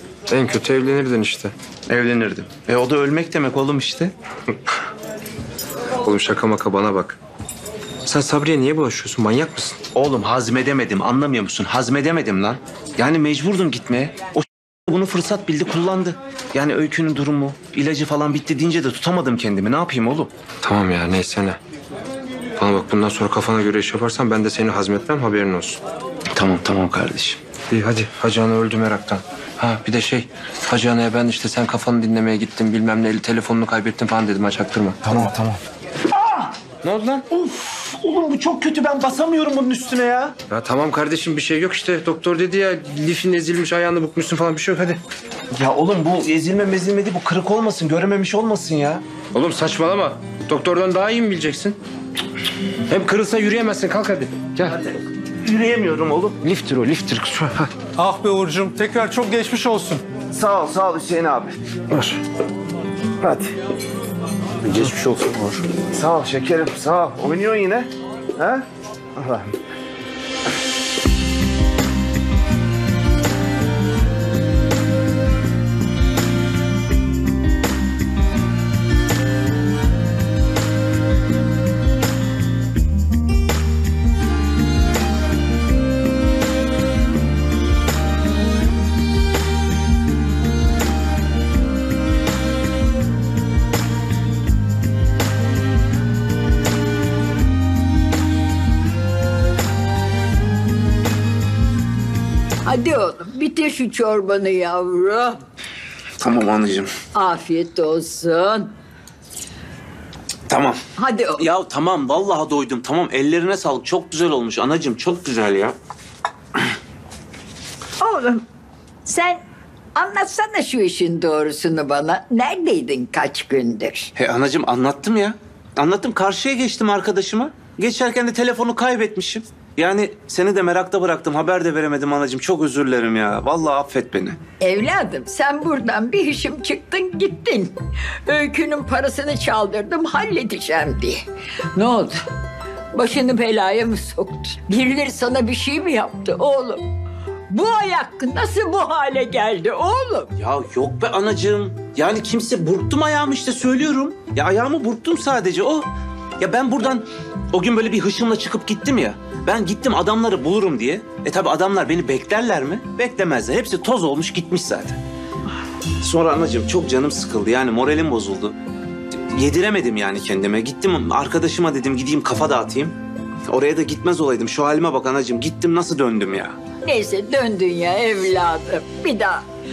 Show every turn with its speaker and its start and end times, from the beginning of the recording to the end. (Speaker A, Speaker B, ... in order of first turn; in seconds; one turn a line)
Speaker A: 0.3-1.5
Speaker B: 1.9-4.1
Speaker A: 6.0-7.2
Speaker A: 8.1-9.8
Speaker B: 9.9-20.3
Speaker A: 20.6-21.6
Speaker A: 22.6-25.8
Speaker B: 26.4-27.4
Speaker A: 27.7-35.1
Speaker B: 35.0-40.3
Speaker A: 40.5-45.0
Speaker B: 45.5-49.0
Speaker A: 49.3-51.8
Speaker A: 52.9-54.8
Speaker B: 54.7-56.4
Speaker A: 56.4-57.7
Speaker C: 58.0-60.0
Speaker B: 60.3-61.5
Speaker A: 61.9-62.2
Speaker B: 63.2-63.5
Speaker A: 64.6-65.5
Speaker B: 65.8-68.6
Speaker B: 69.2-69.5
Speaker D: 102.7-105.4
Speaker B: 106.2-106.9
Speaker D: 107.1-108.7
Speaker B: 110.5-110.8
Speaker D: 111.0-111.5
Speaker B: 111.4-115.8
Speaker D: 118.0-118.4
Speaker D: 119.1-119.4
Speaker D: 120.0-124.1
Speaker B: 124.2-134.4
Speaker D: 134.6-137.7
Speaker D: 138.2-141.2
Speaker D: 141.8-142.2
Speaker D: 142.9-146.8
Speaker D: 147.5-150.3
Speaker B: 150.3-155.9
Speaker B: 156.4-165.0
Speaker B: 166.0-168.5
Speaker B: 169.3-172.9
Speaker B: 173.5-176.6
Speaker D: 176.8-179.4